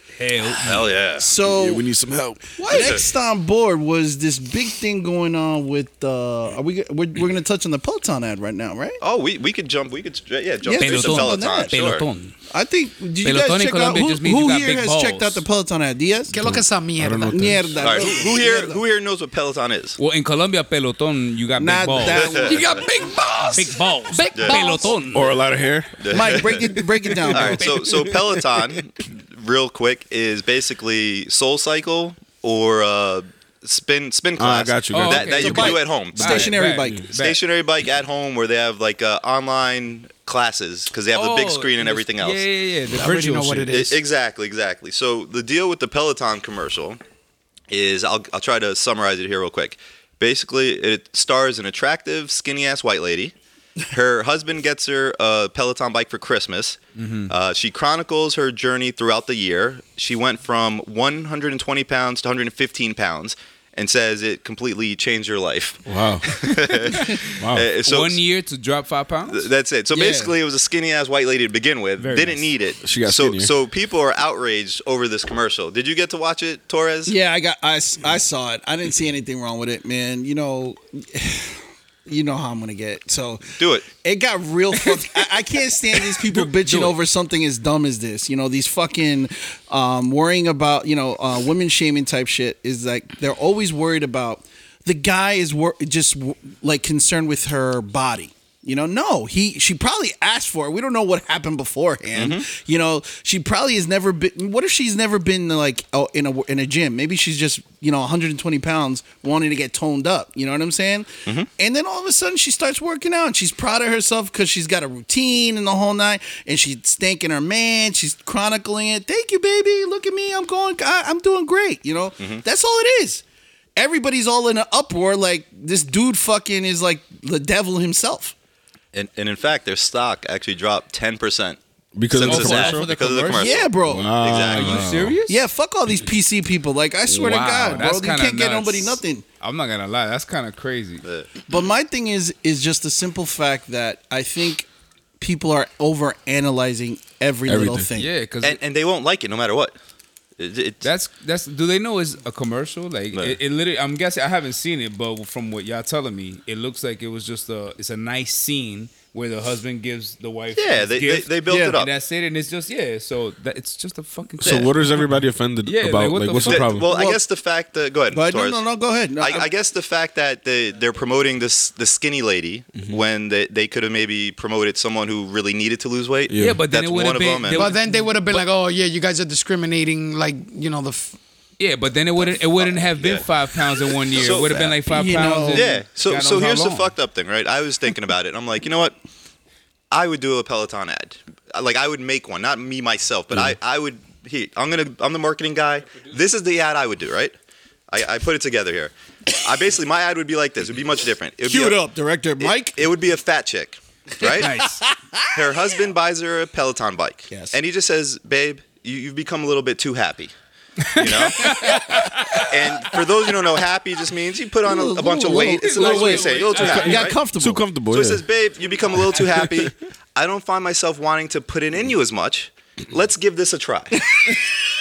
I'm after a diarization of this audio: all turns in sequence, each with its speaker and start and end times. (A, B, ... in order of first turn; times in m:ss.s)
0:00.2-0:00.9 A
0:00.6-0:01.3 B
0:01.2-0:01.8 C
0:01.4-0:02.4 D
0:02.6-0:03.0 E
0:02.6-0:09.0 C
0:02.7-0:03.0 B
0:09.0-0:12.1 B
0:10.8-0:12.0 C
0:10.8-0:12.4 A
0:12.5-0:16.4 C
0:13.2-0:15.4 A
0:16.3-0:17.7 E
0:16.4-0:17.8 D
0:17.3-0:18.8 C
0:17.8-0:20.0 B
0:20.0-0:22.4 A
0:21.5-0:22.7 C
0:22.1-0:22.6 B
0:22.4-0:24.9 E
0:23.5-0:25.4 A
0:24.3-0:24.8 B
0:25.1-0:26.7 D
0:26.0-0:36.4 B
0:26.1-0:27.7 C
0:27.0-0:28.0 A
0:34.3-0:37.0 D
0:34.9-0:37.4 A
0:35.4-0:37.1 C
0:37.1-0:42.4 B
0:41.1-0:43.7 A
0:42.9-0:44.0 E
0:43.7-0:47.0 B
0:47.7-0:53.3 B
0:53.9-1:08.2 B
0:57.0-0:57.3 A
1:05.9-1:06.4 D
1:07.4-1:07.7 D
1:07.8-1:09.5 A
1:09.3-1:17.2 B
1:09.9-1:10.4 C
1:12.0-1:12.4 A
1:12.8-1:13.5 D
1:17.0-2:03.2 C
1:23.6-1:23.9 B
1:26.2-1:26.9 A
1:42.1-1:42.5 B
2:03.8-2:08.3 C
2:08.9-2:11.6 B
2:11.9-2:12.9 D
2:12.1-2:15.0 B
2:12.2-2:13.7 A
2:13.3-2:14.2 C
2:13.9-2:15.2 D
2:14.4-2:15.4 A
2:15.2-2:19.2 C
2:17.1-2:21.0 A
2:21.0-2:21.3 B
2:21.5-2:24.7 C
2:25.2-2:28.1 C
2:27.5-2:27.9 D
2:28.0-2:28.6 A
2:28.4-2:29.8 B
2:30.4-2:30.8 B
2:30.8-2:45.0 A
2:40.5-2:41.9 B
2:41.4-2:41.8 C
2:44.4-2:46.9 D
2:44.4-2:44.7 B
2:45.6-2:46.7 A
2:46.4-2:48.6 B
2:46.8-2:47.2 C
2:48.1-2:49.5 C
2:49.2-2:57.7 B
2:52.8-2:53.0 D
2:56.3-2:56.6 D
2:56.4-2:58.1 A
2:57.5-3:01.2 E
3:01.6-3:06.9 A
3:02.6-3:03.2 B
3:04.1-3:04.8 B
3:04.9-3:05.8 C
3:05.5-3:08.9 B
3:09.9-3:17.3 B
3:17.9-3:21.8 B
3:21.4-3:22.8 C
3:22.4-3:24.6 B
3:24.3-3:24.8 A
3:24.4-3:25.4 C
3:25.3-3:30.3 B
3:27.3-3:27.6 C
3:30.9-3:32.5 A
3:30.9-3:37.2 B
3:31.5-3:31.9 C
3:34.6-3:37.7 C
3:35.2-3:37.1 A
3:36.7-3:38.2 D
3:37.9-3:44.3 B
3:39.2-3:39.7 D